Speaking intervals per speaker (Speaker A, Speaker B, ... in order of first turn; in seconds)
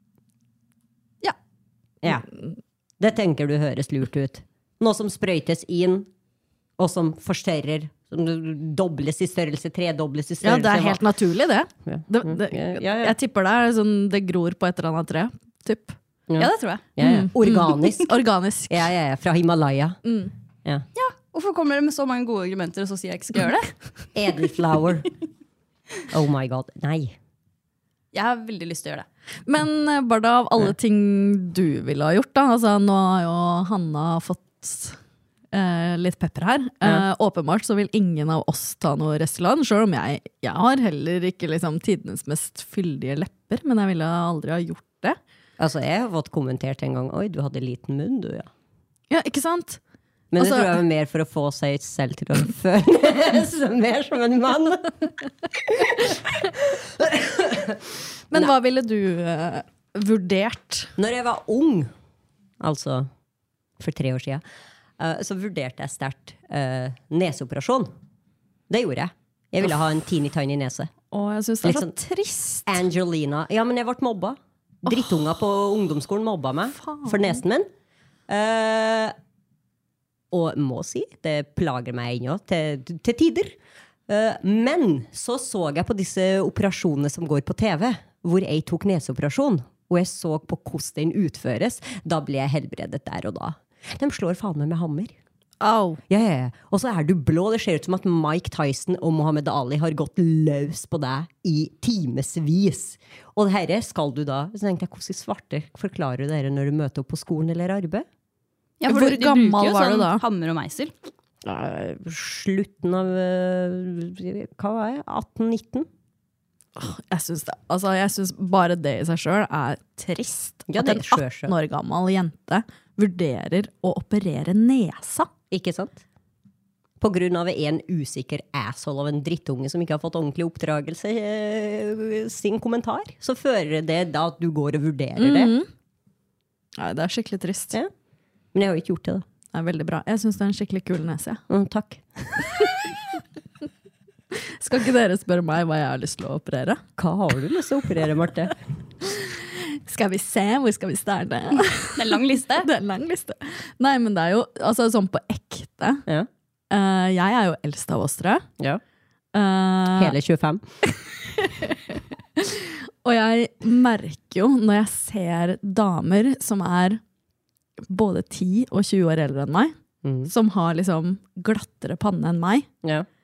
Speaker A: 2.0-2.3, 3.0-6.1, 6.8-11.0, 11.8-13.2, 16.3-18.1, 18.7-20.0, 24.1-25.1, 26.1-27.2, 45.6-48.5, 50.3-58.5, 61.0-61.9, 62.6-63.1, 63.8-64.4, 65.0-67.9, 68.7-70.9, 71.6-71.9, 72.7-77.7, 78.3-79.1, 80.3-83.5, 84.1-95.1, 96.1-108.0, 111.4-115.9, 120.7-121.5, 125.5-126.0, 127.0-135.5, 138.5-139.2, 141.5-142.6, 147.0-148.5, 159.9-160.6, 170.0-170.3
Speaker B: 10.4-15.9, 17.0-18.8, 20.0-20.3, 29.5-35.0, 35.5-45.2, 49.1-49.8, 50.4-50.8, 58.3-60.9, 71.1-72.8, 76.7-77.4, 95.6-96.0, 108.9-110.2, 116.8-125.3, 135.2-135.7, 136.8-137.8, 139.5-141.4, 144.6-146.8, 149.0-156.0, 156.7-158.4, 159.3-160.1, 161.3-167.0, 167.9-169.7, 170.2-172.7
Speaker C: 16.4-16.9, 20.9-23.7, 28.1-29.1, 108.8-110.9, 151.9-152.7